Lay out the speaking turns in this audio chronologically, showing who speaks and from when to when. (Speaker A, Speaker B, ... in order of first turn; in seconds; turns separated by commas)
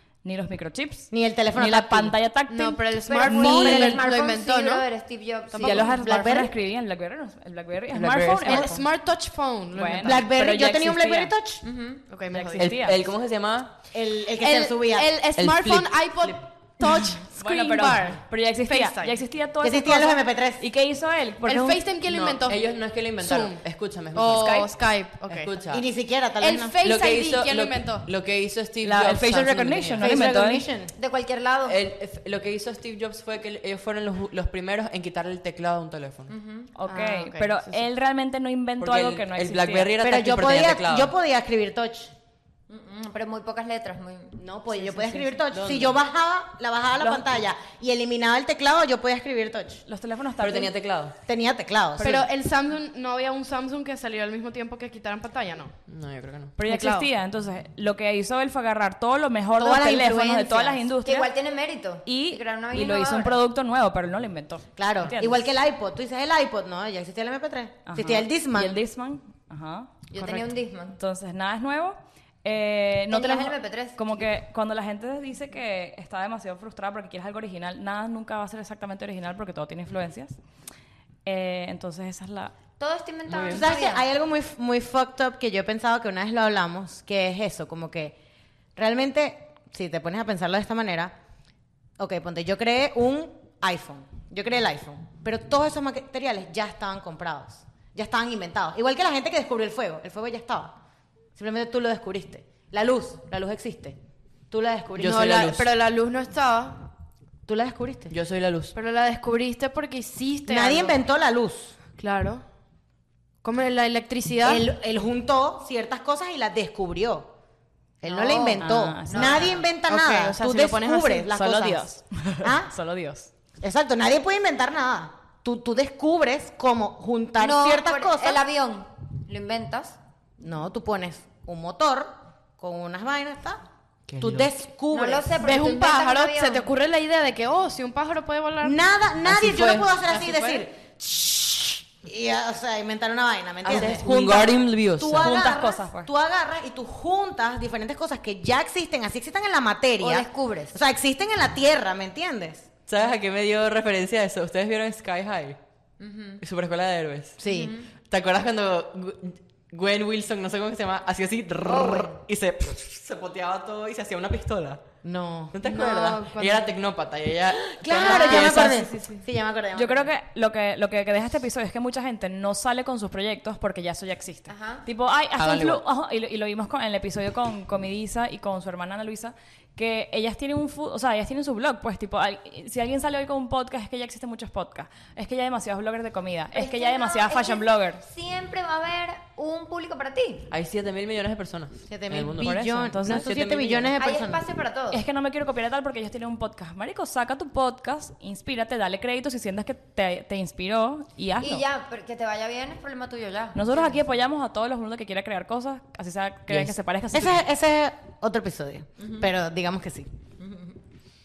Speaker A: 0.2-4.0, Speaker B: 1.1-2.1, Speaker C: 2.5-4.8, Speaker D: 3.2-6.4, Speaker B: 3.2-4.1, Speaker C: 5.5-6.4, Speaker A: 5.6-8.9, Speaker B: 5.9-6.5, Speaker E: 7.9-8.7, Speaker C: 8.4-10.3, Speaker A: 9.7-11.3, Speaker B: 10.0-11.6, Speaker D: 11.6-12.0, Speaker C: 12.1-12.7, Speaker A: 12.3-13.0, Speaker E: 12.6-13.7, Speaker B: 13.9-15.1, Speaker C: 14.4-19.2, Speaker E: 15.4-16.4, Speaker A: 17.3-21.8, Speaker B: 19.6-20.6, Speaker C: 21.4-23.6, Speaker E: 22.1-24.7, Speaker C: 24.1-25.5, Speaker A: 24.4-24.6, Speaker E: 25.3-25.8, Speaker B: 25.7-26.8, Speaker C: 26.4-28.1, Speaker E: 26.8-30.1, Speaker A: 28.8-30.7, Speaker B: 30.0-30.9, Speaker D: 30.9-31.8, Speaker E: 31.6-36.3, Speaker D: 36.3-37.0, Speaker A: 36.7-39.9, Speaker C: 36.9-37.8, Speaker E: 38.8-41.1, Speaker B: 40.0-42.1, Speaker D: 42.7-44.4, Speaker B: 44.4-49.8, Speaker C: 44.7-45.4, Speaker E: 45.5-46.0, Speaker A: 47.0-47.3, Speaker A: 49.9-50.7, Speaker E: 50.4-51.1, Speaker B: 51.2-52.1, Speaker A: 52.0-52.3, Speaker C: 52.0-55.7, Speaker E: 55.9-56.5, Speaker A: 56.6-61.3, Speaker C: 56.6-57.1, Speaker B: 59.6-60.8, Speaker D: 61.0-63.4, Speaker A: 62.0-65.5, Speaker B: 64.8-68.8, Speaker A: 67.8-80.3, Speaker D: 70.1-71.0, Speaker D: 73.1-74.2, Speaker A: 81.2-82.5, Speaker D: 82.8-84.0, Speaker E: 83.3-83.7, Speaker B: 83.5-88.2, Speaker B: 88.8-91.1, Speaker B: 92.0-100.7, Speaker B: 101.3-104.0, Speaker B: 104.5-105.2, Speaker E: 105.0-105.7, Speaker C: 105.0-106.9, Speaker B: 107.5-108.1, Speaker E: 108.1-108.7, Speaker C: 108.7-111.0, Speaker B: 110.5-111.7, Speaker C: 111.9-112.4, Speaker C: 113.4-114.6, Speaker B: 114.4-117.3, Speaker B: 118.0-121.9, Speaker C: 118.0-118.6, Speaker D: 118.2-119.7, Speaker A: 118.6-119.5, Speaker C: 119.8-121.2, Speaker A: 121.1-123.3, Speaker B: 122.4-122.7, Speaker B: 123.6-128.4, Speaker D: 127.4-130.0, Speaker B: 130.4-133.6, Speaker E: 134.1-134.5, Speaker B: 134.2-135.3, Speaker D: 134.9-136.7, Speaker C: 135.3-138.8, Speaker B: 138.6-152.7, Speaker E: 139.2-139.9, Speaker C: 140.1-140.6, Speaker E: 143.6-145.4, Speaker A: 145.2-146.1, Speaker D: 150.0-150.8, Speaker E: 152.9-155.6, Speaker D: 156.0-156.4, Speaker E: 156.4-157.4, Speaker B: 157.4-157.7, Speaker D: 157.5-157.9, Speaker E: 158.1-164.8, Speaker D: 161.7-162.2, Speaker B: 165.0-165.6, Speaker E: 165.5-168.9, Speaker C: 165.6-166.7, Speaker B: 167.8-170.1, Speaker A: 167.9-169.2, Speaker A: 169.7-188.0, Speaker D: 174.5-174.8, Speaker E: 175.4-175.8, Speaker D: 186.5-190.5, Speaker E: 190.5-193.9, Speaker B: 191.8-194.4, Speaker A: 192.4-193.3, Speaker D: 194.0-195.0, Speaker A: 194.9-201.6, Speaker D: 201.4-203.6, Speaker A: 203.5-207.4, Speaker B: 206.5-210.1, Speaker D: 210.4-210.7